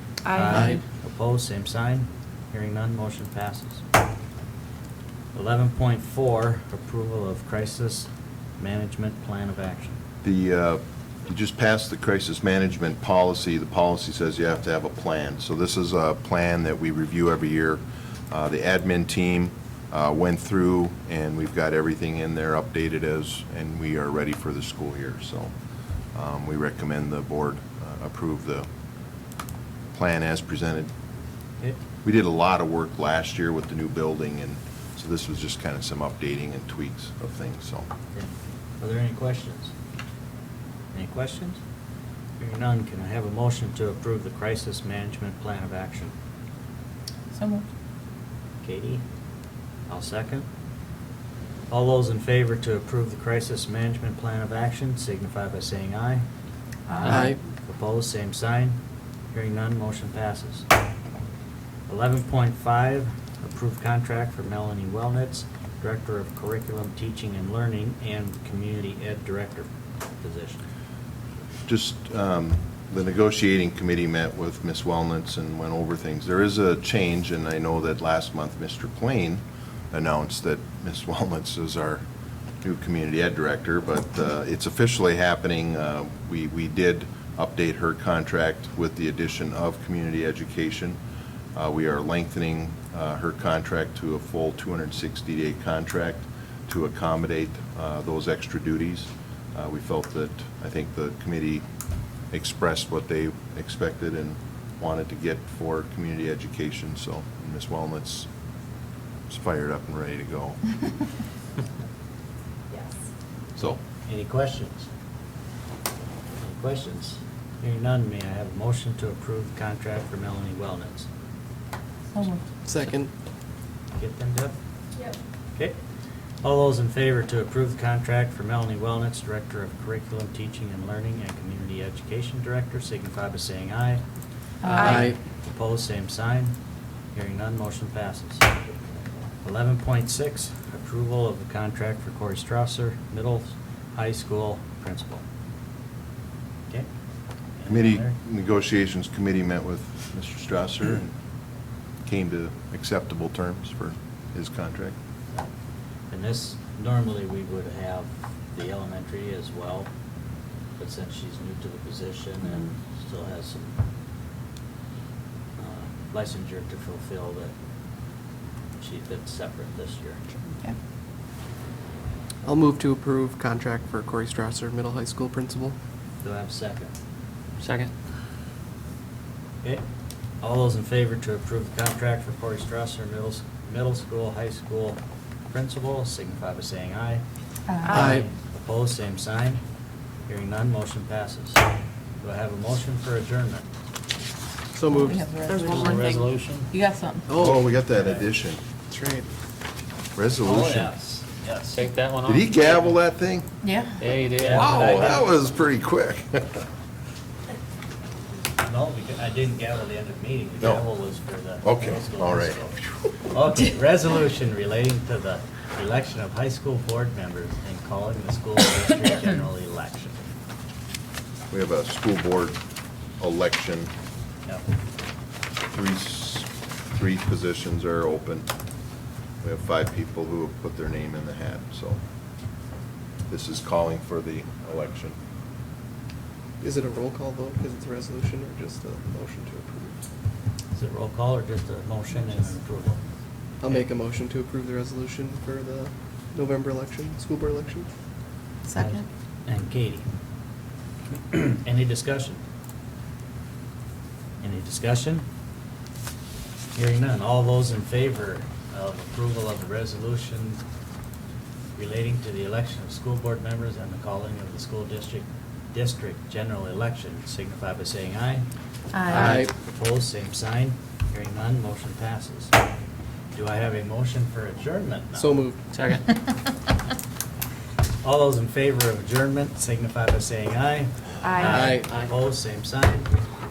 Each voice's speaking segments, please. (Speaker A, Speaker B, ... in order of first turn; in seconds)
Speaker A: 0.3-0.8, 47.3-47.7, 56.9-57.2, 122.2-122.4, 134.6-135.1, 187.7-188.2, 194.9-197.3, 203.6-204.0, 248.7-249.1, 268.9-269.4, 281.2-281.8
Speaker B: 0.3-3.8, 5.3-10.0, 38.1-39.7, 40.9-41.6, 42.4-46.1, 48.6-49.0, 49.9-50.5, 51.7-56.3, 56.9-58.8, 59.3-60.7, 61.9-70.6, 113.6-114.9, 116.4-121.1, 124.0-124.6, 126.4-134.0, 134.7-136.6, 137.1-138.7, 139.4-145.2, 147.6-148.2, 156.1-159.9, 160.8-163.8, 165.6-167.5, 168.8-170.2, 176.2-176.9, 180.4-187.2, 187.9-189.6, 190.3-191.7, 192.2-193.7, 200.4-201.8, 204.4-205.3, 208.6-212.8, 213.3-220.2, 240.7-243.0, 248.8-250.1, 251.3-252.4, 254.4-255.2, 256.8-260.6, 261.8-268.5, 269.1-272.5, 273.3-275.4, 278.0-283.1
Speaker C: 0.5-0.8, 57.0-57.4, 122.7-123.1, 134.7-135.2, 172.4-175.8, 187.9-188.3, 194.7-195.3, 197.3-197.6, 198.9-199.3, 236.6-240.0, 243.6-247.9, 269.1-269.5, 275.2-275.6, 281.4-281.9
Speaker D: 10.2-25.5, 26.1-28.7, 29.9-30.9, 32.0-37.9, 71.7-82.0, 82.6-91.0, 91.5-101.7, 102.3-108.3, 109.3-110.7, 147.7-151.1, 152.1-154.9, 197.3-198.6, 200.2-200.9, 202.2-203.5, 204.5-206.6, 211.6-212.9, 221.5-222.6, 223.2-223.9, 225.7-228.5, 229.4-232.0, 233.3-235.2
Speaker E: 177.6-177.9, 195.5-196.7, 201.7-202.9, 204.0-205.2, 275.7-276.1, 281.8-282.1